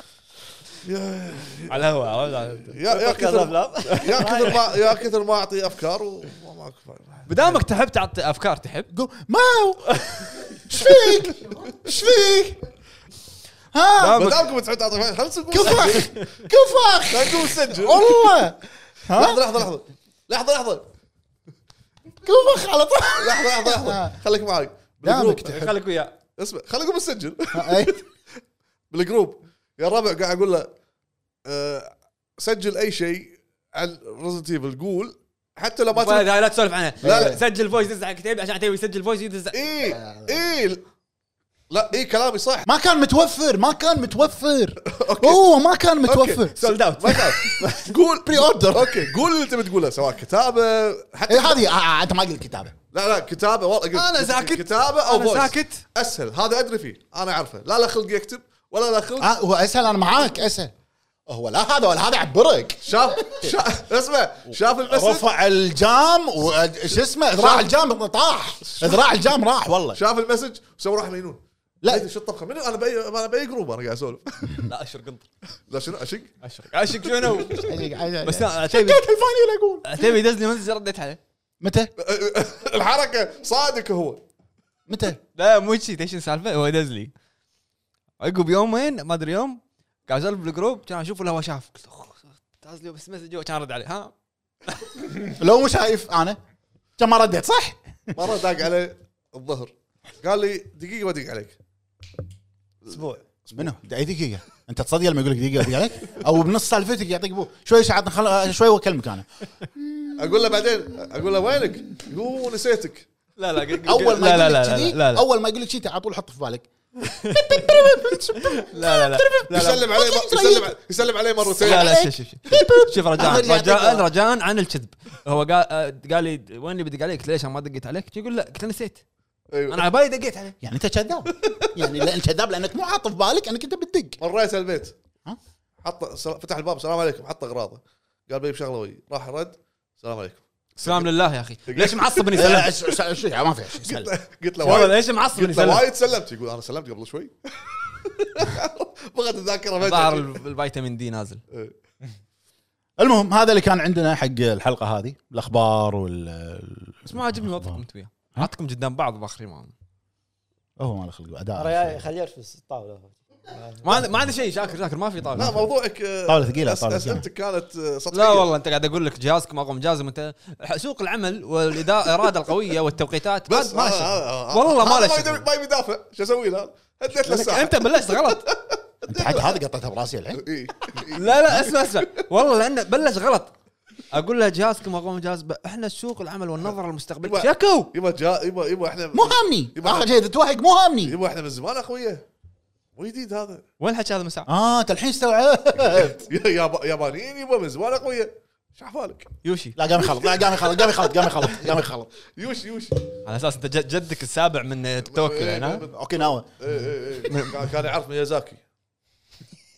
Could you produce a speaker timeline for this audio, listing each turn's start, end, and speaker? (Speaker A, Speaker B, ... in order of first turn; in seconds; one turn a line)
Speaker A: 0.8-1.9
Speaker B: 1.7-4.6
Speaker A: 2.6-7.5
Speaker C: 2.9-4.6
Speaker B: 7.3-8.9
Speaker D: 8.9-12.6
Speaker D: 13.7-14.3
Speaker B: 14.0-14.4
Speaker A: 14.1-16.2
Speaker D: 15.5-19.4
Speaker B: 15.8-16.2
Speaker A: 17.1-18.5
Speaker A: 19.1-20.9
Speaker D: 22.2-24.1
Speaker A: 23.1-25.7
Speaker D: 25.0-25.7
Speaker B: 25.5-26.2
Speaker A: 26.4-28.0
Speaker D: 27.5-28.0
Speaker A: 28.9-30.7
Speaker A: 31.4-36.3
Speaker B: 35.9-39.6
Speaker A: 37.0-37.4
Speaker D: 37.0-37.4
Speaker A: 39.5-40.8
Speaker D: 39.9-40.4
Speaker A: 41.7-42.7
Speaker D: 42.6-46.5
Speaker A: 44.8-45.5
Speaker A: 46.0-51.6
Speaker B: 46.5-47.9
Speaker D: 48.2-49.1
Speaker D: 51.3-52.7
Speaker A: 52.9-59.3
Speaker B: 53.9-55.8
Speaker D: 59.2-60.7
Speaker D: 61.3-63.5
Speaker A: 62.8-65.3
Speaker D: 64.5-70.0
Speaker A: 67.3-67.7
Speaker A: 68.7-69.0
Speaker A: 69.9-74.6
Speaker B: 74.7-75.3
Speaker A: 75.7-76.3
Speaker B: 76.4-79.0
Speaker A: 77.0-77.6
Speaker D: 77.6-80.1
Speaker B: 79.8-81.2
Speaker D: 81.6-81.9
Speaker A: 82.0-84.2
Speaker D: 84.9-85.2
Speaker B: 85.3-87.1
Speaker B: 88.2-94.1
Speaker B: 94.7-94.9
Speaker D: 95.3-96.4
Speaker D: 97.0-98.1
Speaker A: 98.1-101.6
Speaker A: 102.8-103.7
Speaker C: 102.9-103.2
Speaker D: 103.5-110.3
Speaker A: 110.2-113.1
Speaker B: 113.4-115.2
Speaker D: 113.8-120.7
Speaker B: 117.0-119.9
Speaker A: 119.5-121.9
Speaker D: 121.5-124.1
Speaker B: 121.6-129.0
Speaker A: 129.5-129.9
Speaker B: 129.7-130.6
Speaker D: 130.6-134.2
Speaker A: 134.2-134.9
Speaker A: 135.8-141.1
Speaker B: 140.8-142.8
Speaker A: 141.7-142.9
Speaker D: 142.3-144.1
Speaker A: 143.8-150.4
Speaker B: 144.6-145.9
Speaker B: 149.8-151.4
Speaker D: 153.0-157.8
Speaker B: 157.1-159.7
Speaker D: 160.8-162.0
Speaker C: 161.6-164.0
Speaker B: 163.8-165.7
Speaker D: 165.3-165.7
Speaker A: 165.3-168.5
Speaker D: 166.2-167.2
Speaker B: 168.1-175.4
Speaker A: 173.5-179.6
Speaker B: 177.2-178.5
Speaker D: 179.1-180.4
Speaker A: 180.3-182.2
Speaker B: 181.1-183.5
Speaker B: 184.1-187.9
Speaker A: 187.2-190.1
Speaker D: 189.1-191.1
Speaker A: 191.0-192.2
Speaker A: 192.9-193.6
Speaker B: 193.8-194.5
Speaker D: 194.5-196.3
Speaker A: 196.3-199.3
Speaker B: 199.4-199.8
Speaker D: 199.8-202.1
Speaker A: 200.7-201.7
Speaker A: 202.3-203.1
Speaker B: 203.2-205.8
Speaker A: 205.0-208.6
Speaker D: 205.9-206.5
Speaker B: 207.2-207.7